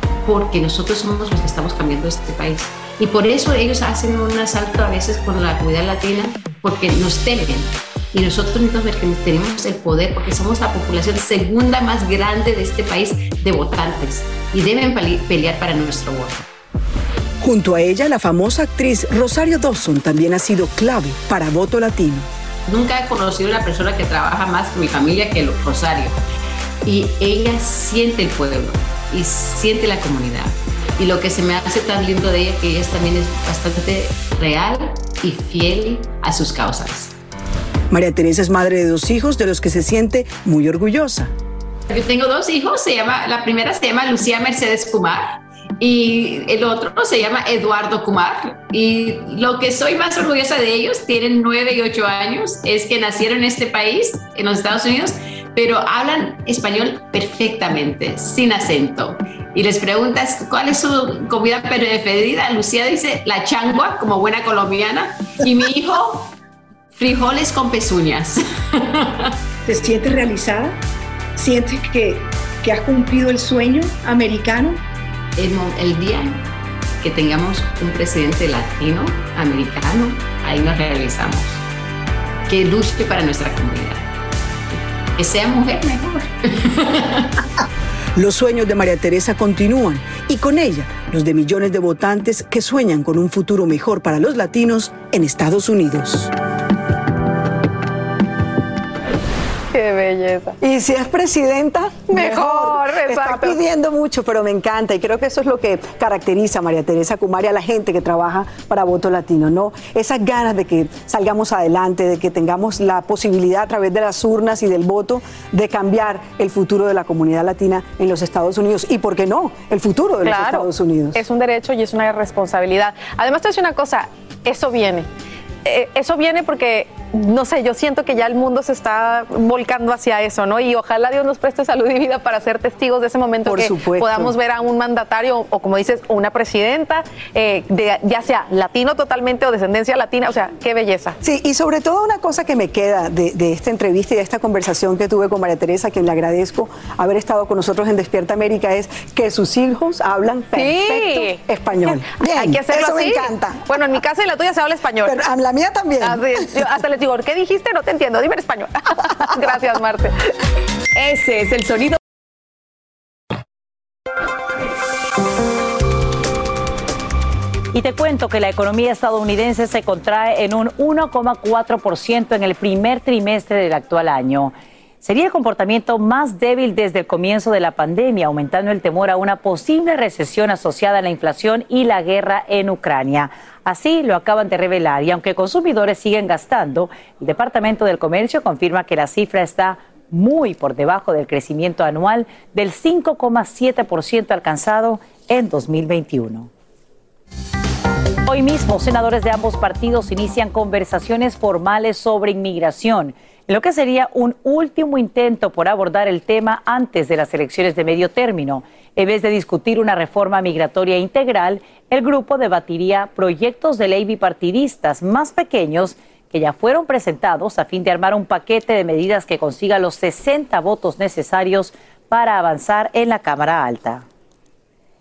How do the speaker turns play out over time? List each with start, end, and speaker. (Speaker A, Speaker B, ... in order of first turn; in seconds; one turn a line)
Speaker A: 0.2-16.4
Speaker B: 17.4-22.3
Speaker A: 22.7-26.1
Speaker A: 26.9-37.1
Speaker B: 37.9-41.3
Speaker A: 41.9-66.3
Speaker A: 67.0-69.3
Speaker C: 69.7-70.8
Speaker C: 71.4-74.8
Speaker A: 75.4-76.5
Speaker A: 77.0-81.6
Speaker A: 82.5-84.1
Speaker A: 85.2-87.2
Speaker B: 88.2-96.3
Speaker D: 99.7-100.5
Speaker B: 100.6-121.2
Speaker D: 102.1-103.6
Speaker D: 120.2-125.1
Speaker D: 125.7-141.2
Speaker B: 133.5-134.3
Speaker B: 141.2-153.6
Speaker D: 150.5-155.2
Speaker B: 155.1-156.5
Speaker D: 156.0-160.1
Speaker D: 161.0-162.0
Speaker E: 167.7-196.5
Speaker E: 198.3-224.1